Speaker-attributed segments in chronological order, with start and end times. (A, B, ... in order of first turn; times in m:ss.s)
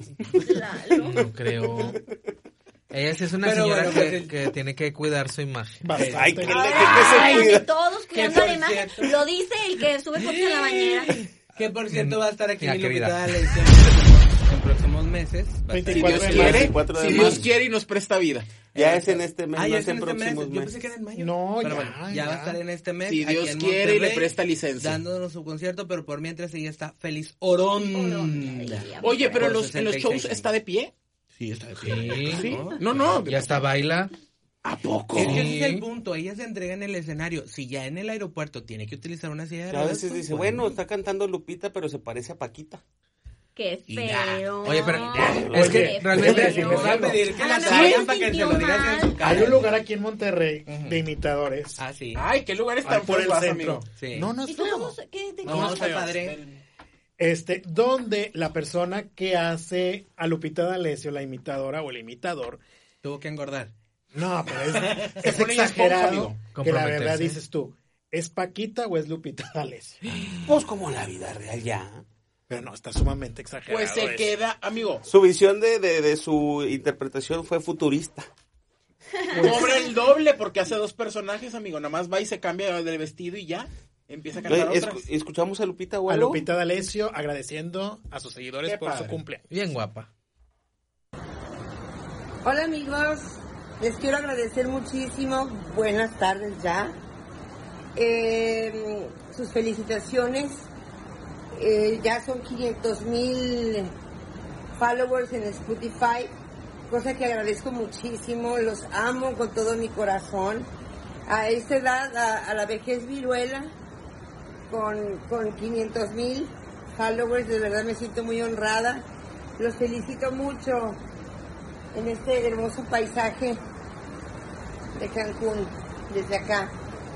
0:00.4-0:01.3 A
0:01.0-0:02.0 B
0:02.9-0:05.9 B
0:03.4-0:04.3 C
0:05.8-0:06.7 D
0:06.0-0:07.7 E
0:06.4-0:11.2 A
0:07.0-0:07.4 C
0:08.1-0:09.2 C
0:10.2-0:17.4 C
0:11.9-0:13.3 B
0:15.7-0:16.8 D
0:15.9-0:18.6 F
0:16.0-0:17.5 E
0:18.7-0:30.5 C
0:18.7-0:20.7 E
0:21.2-0:22.6 D
0:23.0-0:25.0 F
0:27.8-0:29.4 A
0:29.0-0:30.9 F
0:31.4-0:33.2 C
0:31.8-0:32.4 B
0:32.1-0:33.6 F
0:33.2-0:34.1 B
0:34.6-0:35.5 F
0:35.1-0:40.8 C
0:35.2-0:35.8 B
0:39.7-0:42.8 E
0:43.6-0:49.4 A
0:43.9-0:44.4 C
0:44.6-0:47.2 B
0:45.3-0:45.8 E
0:45.3-0:48.0 D
0:46.2-0:49.7 C
0:49.2-0:51.8 D
0:50.7-0:51.0 C
0:51.8-0:52.2 C
0:52.1-0:53.9 F
0:52.8-0:56.2 D
0:53.9-0:54.3 C
0:54.4-0:55.9 A
0:55.4-0:56.4 C
0:55.5-0:56.6 F
0:57.2-1:02.6 D
1:03.0-1:03.7 C
1:04.1-1:10.0 D
1:05.2-1:06.4 F
1:06.5-1:07.4 B
1:10.4-1:12.0 E
1:12.5-1:14.3 D
1:13.7-1:15.0 F
1:15.0-1:18.3 E
1:19.3-1:19.9 A
1:19.3-1:25.0 F
1:24.5-1:26.4 E
1:26.1-1:29.5 D
1:28.6-1:29.2 F
1:29.5-1:30.1 B
1:32.4-1:36.9 G
1:38.0-1:40.7 G
1:41.5-1:43.9 G
1:44.8-1:46.3 G
1:46.9-1:50.7 G
1:51.3-1:53.7 G
1:54.7-1:59.0 G
1:59.6-2:01.0 G
2:01.9-2:03.6 G
2:05.0-2:06.7 G